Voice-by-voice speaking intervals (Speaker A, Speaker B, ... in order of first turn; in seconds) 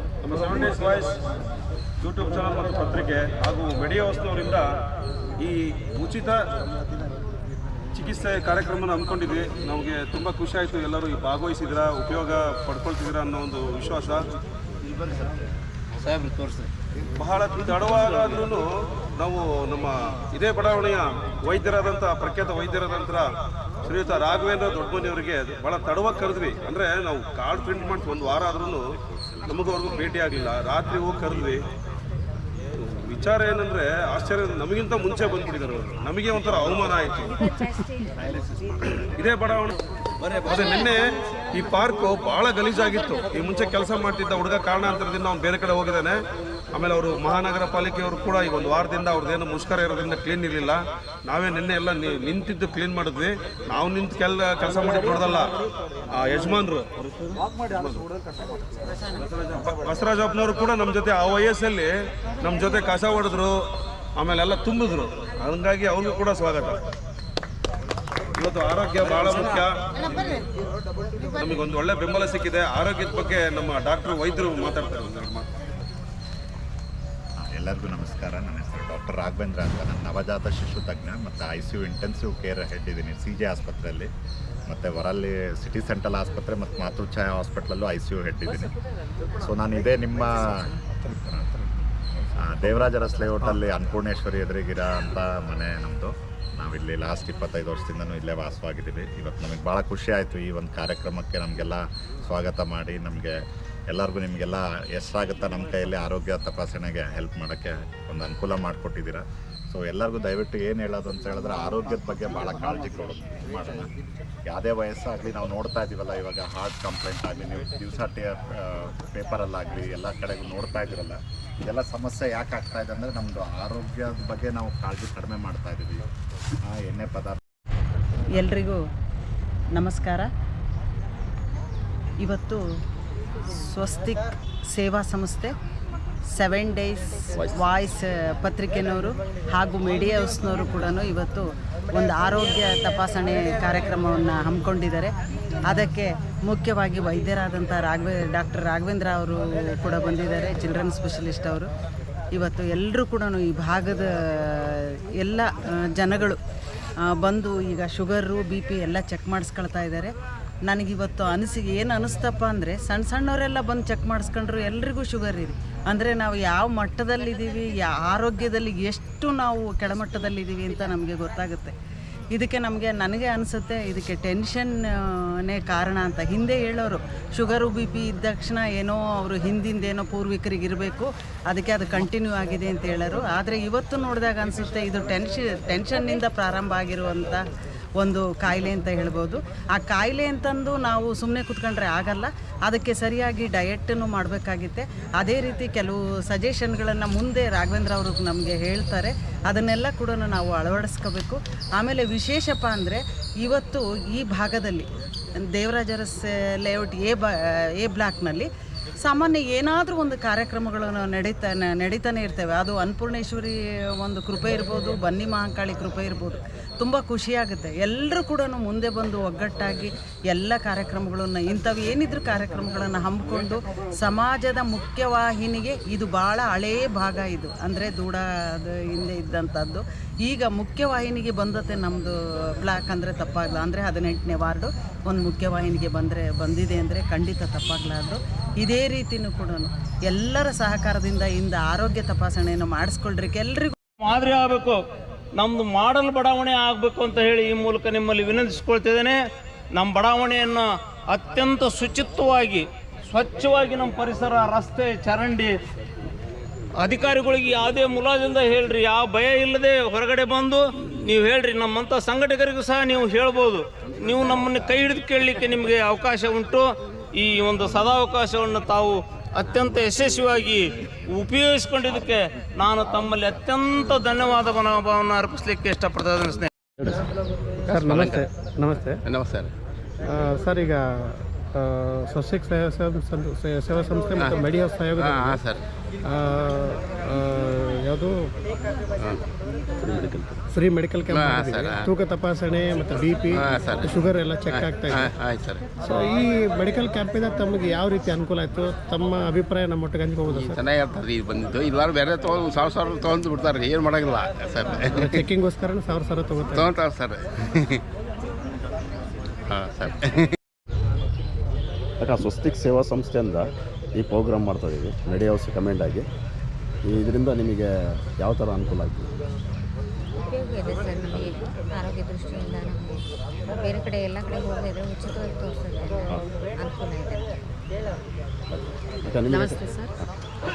Speaker A: 0.2-1.1, 2.0-4.7, 5.4-6.4, 7.9-14.2, 17.2-18.6, 19.2-23.3, 23.8-28.8, 29.5-31.6, 32.8-37.3, 39.1-39.7, 40.4-41.0, 41.5-46.2, 46.7-55.5, 56.1-56.9, 57.7-58.0, 59.5-61.9, 62.4-63.6, 64.2-66.8, 68.3-69.7, 71.4-75.5
Speaker B: 16.2-16.5, 244.0-244.8, 245.4-249.2, 249.7-255.5, 256.8-276.5
Speaker C: 77.4-84.1, 84.7-88.7, 89.3-90.7, 92.4-103.4, 103.9-113.9, 114.5-126.0, 126.6-127.4
Speaker D: 128.3-128.8, 129.7-130.3, 132.2-132.6, 133.7-135.5, 136.3-145.1, 145.7-151.7, 152.3-156.4, 157.2-160.1, 160.7-171.7, 172.3-187.4, 188.0-204.9, 205.4-208.5, 209.0-243.8
Speaker E: 277.6-278.2, 279.0-279.5, 284.2-284.4, 285.0-285.6, 289.0-289.2, 291.1-291.9, 293.3-295.6, 300.2-305.2, 306.5-307.8, 309.5-310.3
Speaker F: 277.7-279.0, 280.0-285.4, 286.0-288.3, 290.5-295.1, 295.8-300.6, 304.9-306.7
Speaker G: 289.8-290.4, 312.0-316.1, 316.8-319.1, 328.5-329.8
Speaker H: 320.2-327.4